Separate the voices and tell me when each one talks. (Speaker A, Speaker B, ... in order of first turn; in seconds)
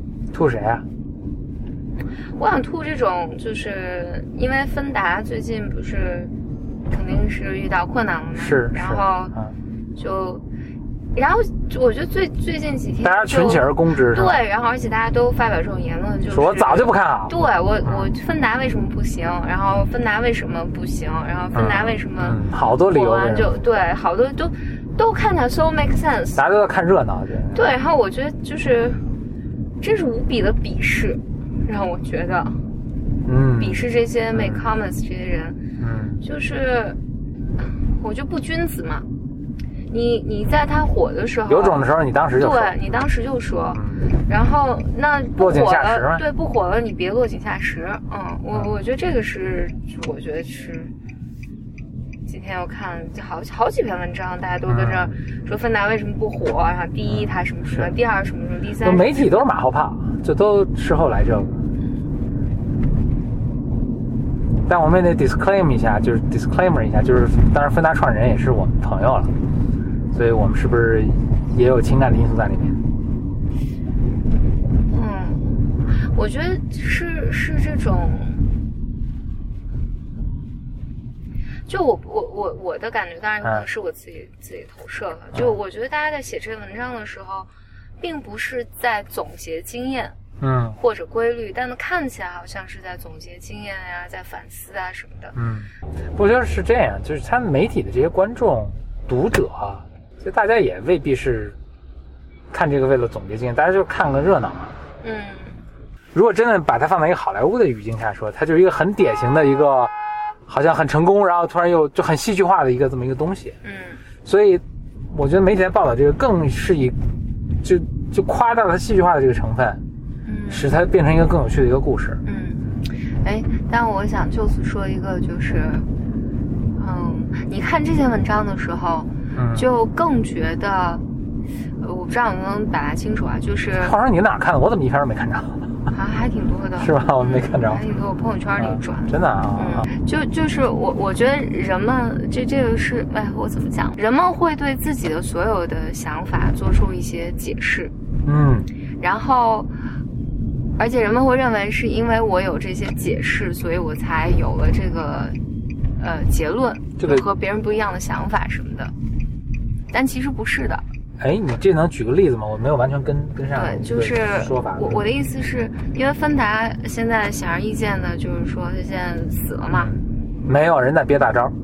Speaker A: 0.3-0.9, 8.4-9.6, 13.0-14.4, 16.3-18.1, 21.5-23.6, 26.4-27.7, 33.2-34.6, 35.8-36.2, 41.5-42.8, 43.8-44.1, 45.4-46.2, 54.7-55.2, 57.1-57.9, 58.8-61.7, 64.7-69.3, 70.1-72.8, 75.8-76.1, 90.4-90.8, 95.3-101.6, 102.5-104.8, 106.1-109.9, 110.5-113.6, 114.2-117.0, 117.6-119.8, 120.5-122.2, 129.3-129.7, 133.8-135.9, 136.8-137.9, 138.6-139.9, 148.2-148.7, 157.0-157.2, 161.2-165.0, 169.7-171.6
Speaker B: 2.4-6.3, 6.9-9.3, 10.0-10.4, 11.1-22.4, 22.9-26.4, 27.5-29.1, 29.8-32.7, 33.6-35.6, 36.2-37.0, 37.6-39.1, 39.9-41.9, 42.4-50.9, 52.3-59.2, 74.9-78.5, 81.7-87.5, 88.0-90.2, 90.8-95.3, 105.0-105.7, 113.6-114.0, 120.2-120.7, 122.2-125.9, 126.7-131.1, 131.8-133.9, 135.9-147.9, 149.0-149.7, 150.8-155.4, 156.0-158.9, 159.9-160.8, 163.5-169.9